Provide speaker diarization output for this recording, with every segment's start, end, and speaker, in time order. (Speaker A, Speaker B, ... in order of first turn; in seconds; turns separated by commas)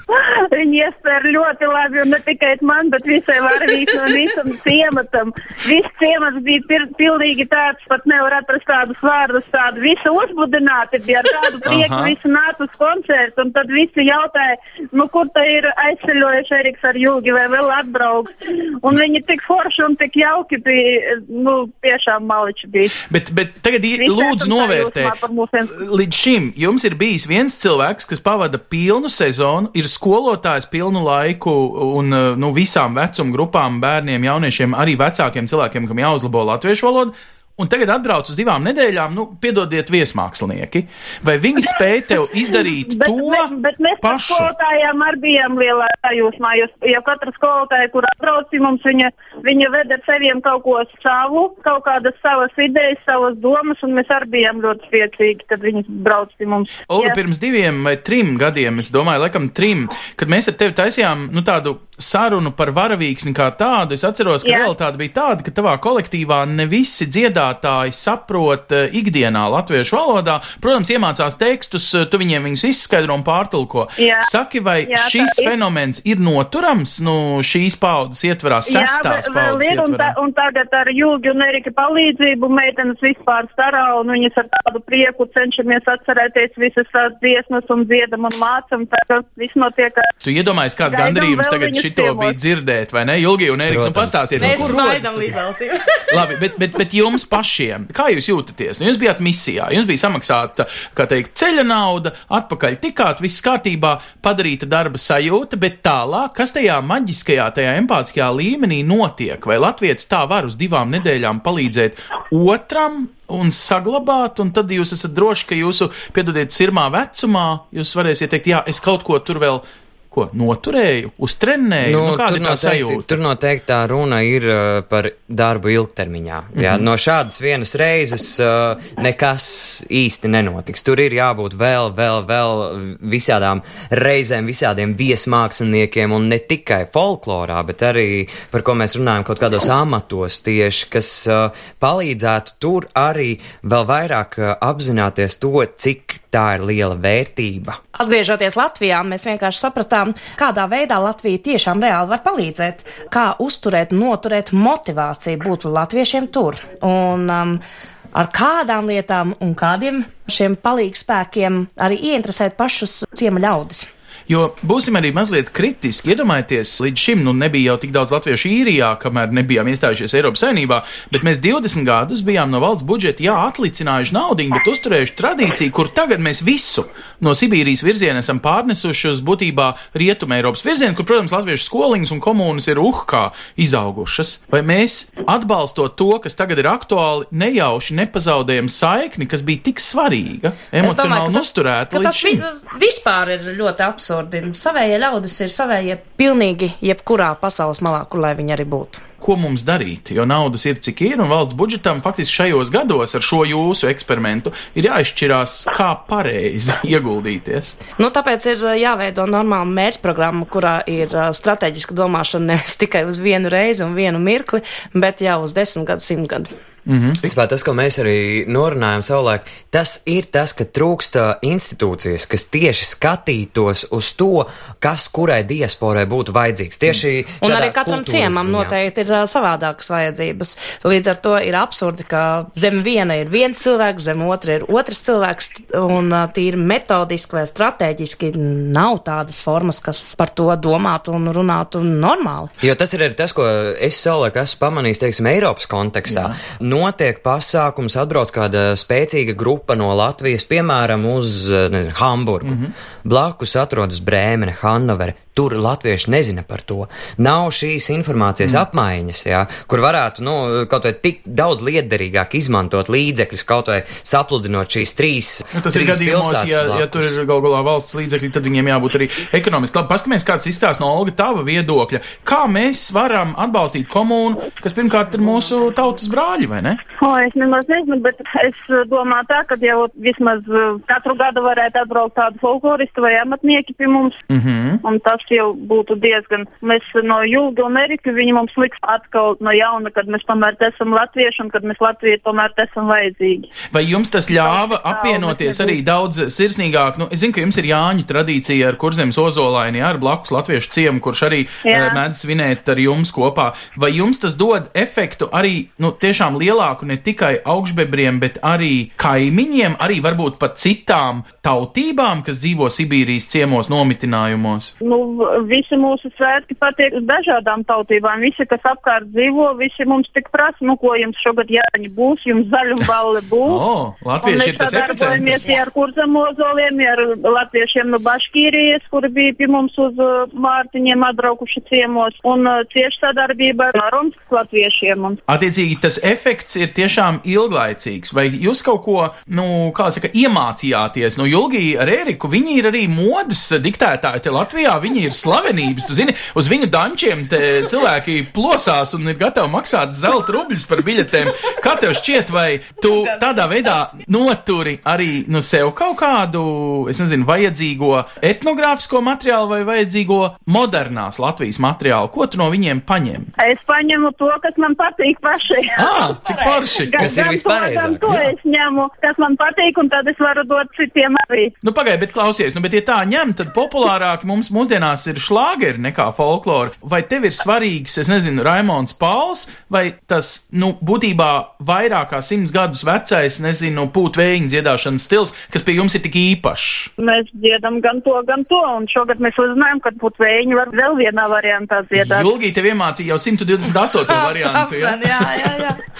Speaker A: 0.1-23.0, Speaker B: 11.7-12.1, Speaker B: 23.1-25.1, Speaker A: 24.0-25.8, Speaker B: 25.7-44.5, Speaker A: 42.9-57.2, Speaker B: 56.9-80.1, Speaker A: 64.4-64.7, Speaker A: 74.0-74.3, Speaker A: 74.9-75.5, Speaker A: 78.7-90.1, Speaker B: 90.2-95.3, Speaker A: 90.9-92.3, Speaker C: 93.7-95.0, Speaker D: 94.4-96.3, Speaker B: 96.1-123.2, Speaker C: 121.8-147.8, Speaker B: 126.5-126.8, Speaker D: 147.9-157.6, Speaker D: 158.1-163.9, Speaker B: 164.3-192.4, Speaker D: 190.8-199.0, Speaker B: 199.2-207.7, Speaker D: 208.0-216.5, Speaker B: 216.8-217.3, Speaker C: 217.2-228.7, Speaker D: 227.4-242.5, Speaker C: 242.6-267.2, Speaker B: 246.1-246.3, Speaker B: 252.4-252.7, Speaker B: 265.5-276.8, Speaker A: 277.0-284.2, Speaker B: 284.3-284.8, Speaker A: 284.8-293.5, Speaker B: 293.7-314.7, Speaker A: 294.4-295.8, Speaker A: 301.6-302.0, Speaker A: 314.8-323.6, Speaker B: 323.4-325.6, Speaker A: 324.2-335.2, Speaker B: 335.3-363.3, Speaker D: 352.8-353.9, Speaker A: 363.4-371.5, Speaker B: 365.8-367.1, Speaker C: 366.9-368.3, Speaker B: 371.6-386.9, Speaker A: 387.0-392.3, Speaker B: 391.9-395.6, Speaker D: 394.1-395.8